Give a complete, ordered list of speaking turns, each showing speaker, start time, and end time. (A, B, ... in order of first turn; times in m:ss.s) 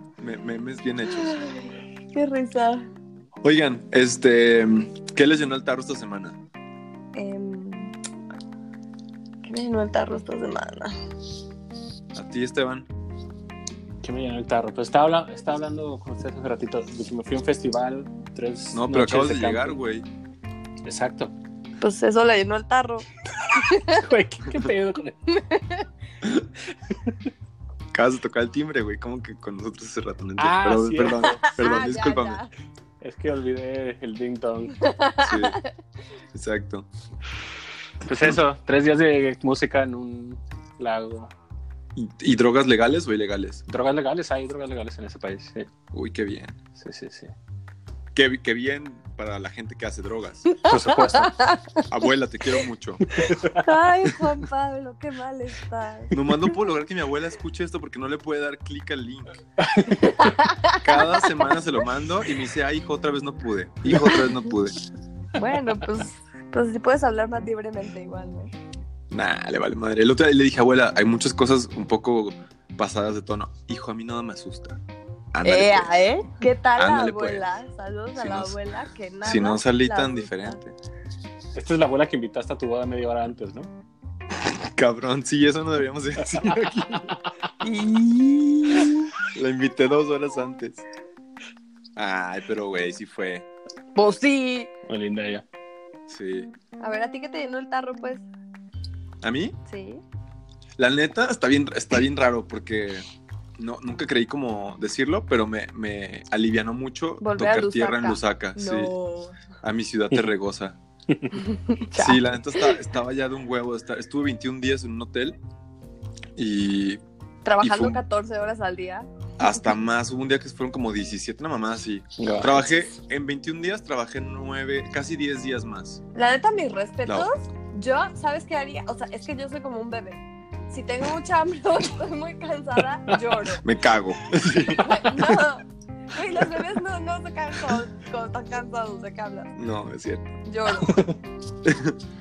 0:00.2-0:01.4 A
0:01.2-0:02.9 B
0:03.4-0:06.4 A
0:07.1-0:07.9 B
0:09.4-0:10.9 B
0:12.1-0:12.9 A
0:14.0-0:19.8 C
0:18.7-0:20.1 A
0:20.8-0:21.3 C
0:21.8-0:24.0 B
0:23.9-0:25.1 C
0:25.3-0:25.9 B
0:27.9-0:32.4 A
0:30.4-0:31.5 C
0:31.3-0:32.5 B
0:33.0-0:34.8 C
0:34.8-0:35.7 B
0:35.2-0:35.6 A
0:36.3-0:36.9 A
0:38.0-0:41.3 C
0:42.0-0:43.6 A
0:43.7-0:45.7 C
0:45.9-0:46.6 A
0:46.8-0:47.3 C
0:48.1-0:50.4 A
0:50.4-0:51.8 B
0:50.7-0:51.4 C
0:51.9-0:53.1 A
0:53.2-0:53.6 C
0:53.6-0:56.1 B
0:56.1-0:59.4 A
0:59.7-1:00.3 C
1:00.0-1:01.3 B
1:00.8-1:04.8 A
1:05.4-1:08.5 B
1:09.1-1:14.8 A
1:15.3-1:15.9 A
1:15.4-1:20.6 B
1:16.7-1:17.4 A
1:18.1-1:18.6 A
1:19.2-1:20.7 A
1:21.5-1:23.7 C
1:24.7-1:27.1 A
1:27.6-1:29.1 B
1:29.2-1:30.8 A
1:32.0-1:33.5 A
1:33.9-1:34.7 B
1:34.9-1:35.4 C
1:36.1-1:36.5 A
1:36.8-1:38.2 B
1:39.2-1:39.6 A
1:39.7-1:40.0 B
1:40.8-1:43.1 A
1:43.6-1:48.9 A
1:47.2-1:49.4 B
1:49.6-1:50.8 A
1:51.4-1:52.6 B
1:52.0-1:55.4 A
1:56.4-1:57.0 A
1:57.4-1:59.1 B
1:57.6-1:58.0 A
1:59.4-2:06.0 A
2:02.2-2:02.7 C
2:06.1-2:13.6 B
2:13.6-2:15.2 A
2:14.8-2:19.5 B
2:19.6-2:20.3 A
2:20.4-2:21.0 B
2:20.8-2:21.1 C
2:21.6-2:22.0 A